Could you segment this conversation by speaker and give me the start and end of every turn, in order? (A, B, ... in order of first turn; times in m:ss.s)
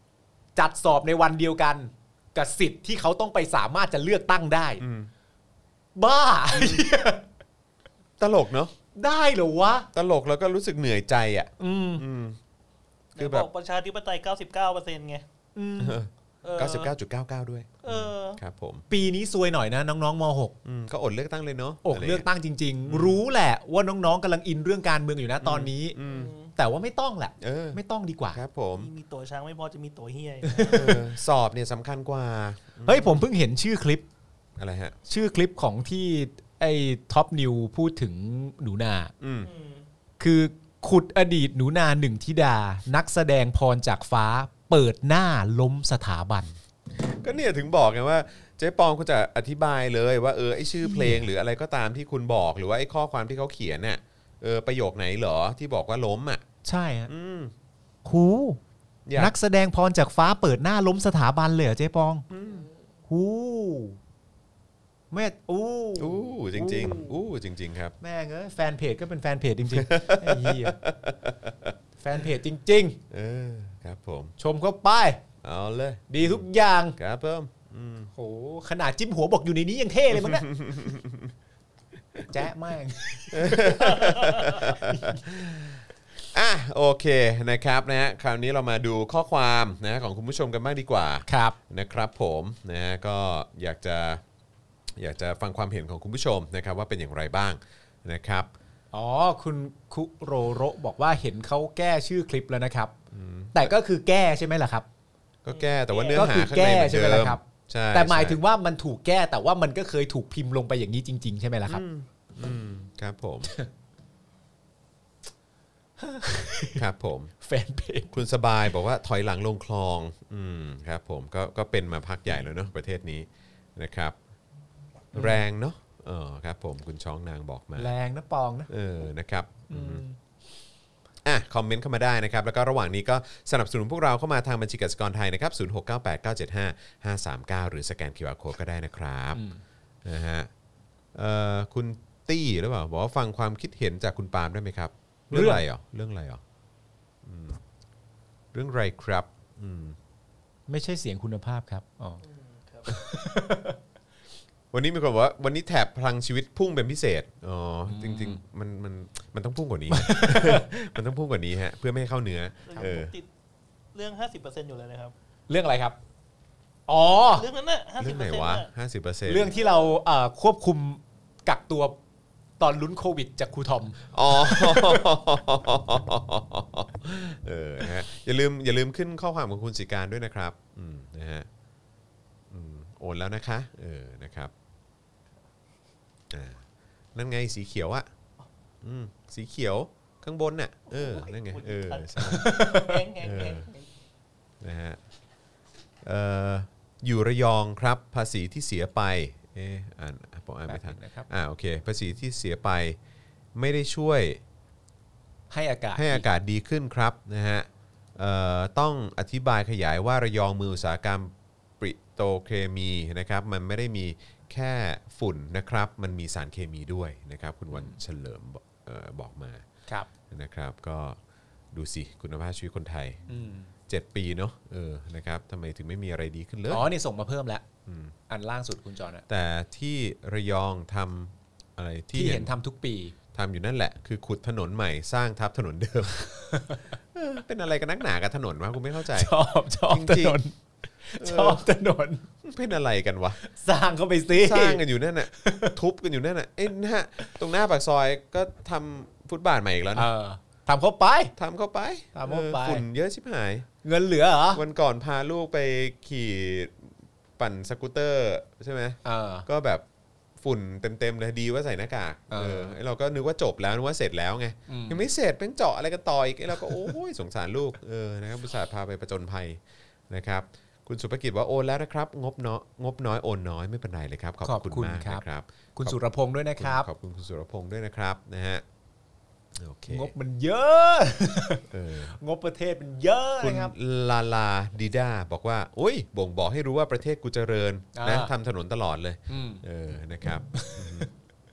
0:00.6-0:04.8 A
0:04.8-0:05.1 B
0:06.0-0:07.2 A
0:06.5-0:06.8 B
0:08.2-0:08.7 B
0:08.9-0:09.9 A
0:09.9-0:12.4 B
0:11.6-0:12.0 A
0:13.2-0:13.5 B
0:13.2-0:15.2 C
0:15.5-0:16.0 A
0:15.8-0:18.8 B
0:16.4-0:16.9 C
0:17.8-0:18.4 C
0:18.9-0:20.6 A
0:20.6-0:22.2 B
0:21.8-0:26.0 A
0:22.9-0:23.2 B
0:25.4-0:26.3 B
0:26.0-0:26.5 C
0:26.5-0:28.4 A
0:27.4-0:27.8 B
0:28.3-0:28.9 B
0:28.8-0:31.0 C
0:30.4-0:31.0 A
0:30.7-0:33.3 B
0:32.8-0:34.0 A
0:34.6-0:34.9 B
0:35.1-0:39.1 A
0:39.2-0:39.5 B
0:39.4-0:39.8 C
0:40.2-0:46.5 A
0:47.0-0:56.4 B
0:50.8-0:51.2 A
0:56.6-0:57.1 A
0:57.1-0:57.5 B
0:58.0-0:58.6 A
0:59.0-0:59.3 B
0:59.1-1:02.2 A
1:02.3-1:02.6 B
1:03.1-1:04.0 A
1:05.1-1:07.1 A
1:06.0-1:08.0 B
1:08.0-1:10.8 A
1:09.7-1:11.7 B
1:12.0-1:13.0 A
1:13.1-1:14.3 B
1:14.4-1:15.2 A
1:15.4-1:18.1 B
1:16.1-1:17.0 A
1:18.1-1:20.5 A
1:20.1-1:21.3 B
1:22.3-1:25.2 A
1:23.3-1:34.2 B
1:31.3-1:31.6 A
1:34.9-1:38.5 B
1:38.9-1:42.9 A
1:43.1-1:43.7 B
1:43.5-1:44.9 A
1:45.4-1:48.4 B
1:45.5-1:46.3 C
1:46.1-1:51.8 A
1:51.7-1:53.5 B
1:56.0-1:56.8 A
1:56.8-1:57.3 B
1:57.4-1:58.1 A
1:58.1-2:04.2 B
2:05.1-2:07.9 B
2:05.1-2:05.4 A
2:07.8-2:08.7 A
2:08.7-2:10.0 B
2:09.7-2:10.2 A
2:11.2-2:19.4 B
2:19.3-2:19.6 A
2:20.0-2:20.5 B
2:21.1-2:26.4 B
2:25.3-2:25.6 A
2:27.2-2:27.6 B
2:28.5-2:30.0 B
2:30.7-2:32.2 A
2:32.2-2:32.9 C
2:32.9-2:33.8 A
2:34.7-2:43.1 B
2:37.9-2:38.4 A
2:39.9-2:40.7 A
2:42.7-2:43.3 C
2:43.9-2:45.1 C
2:45.5-2:46.0 A
2:46.9-2:47.5 A
2:47.3-2:48.7 C
2:48.0-2:49.5 B
2:49.3-2:52.0 A
2:49.5-2:49.9 C
2:52.6-2:55.1 A
2:54.1-3:01.5 B
3:02.5-3:04.5 B
3:06.3-3:06.6 B
3:07.1-3:08.1 B
3:08.8-3:12.5 B
3:10.9-3:13.9 C
3:12.2-3:13.0 A
3:13.2-3:13.7 B
3:14.6-3:15.0 B
3:16.0-3:23.0 B
3:20.7-3:21.3 A
3:23.5-3:24.4 B
3:25.5-3:26.2 A
3:26.0-3:39.6 B
3:40.3-3:41.2 B
3:41.7-3:43.2 B
3:43.3-3:43.7 A
3:43.9-3:46.9 B
3:46.7-3:47.6 A
3:47.8-3:48.1 B
3:48.3-3:49.2 A
3:49.3-3:52.5 B
3:52.1-3:53.1 A
3:53.3-3:56.5 B
3:56.5-3:56.8 A
3:57.1-3:59.3 B
3:59.1-4:02.2 A
3:59.9-4:00.4 B
4:01.2-4:01.6 B
4:02.4-4:03.4 B
4:03.4-4:05.7 A
4:04.3-4:10.1 B
4:10.0-4:11.3 A
4:11.4-4:13.7 B
4:12.1-4:12.8 A
4:13.8-4:14.6 A
4:14.5-4:19.8 B
4:19.0-4:19.4 A
4:20.4-4:36.0 B
4:22.3-4:22.7 A
4:24.7-4:25.1 A
4:26.6-4:26.9 A
4:34.4-4:35.2 A
4:35.8-4:36.9 A
4:36.6-4:38.6 B
4:39.6-4:40.1 B
4:39.9-4:43.7 A
4:41.7-4:42.1 B
4:43.4-4:51.1 B
4:47.9-4:48.3 A
4:49.3-4:49.6 A
4:50.5-4:51.1 A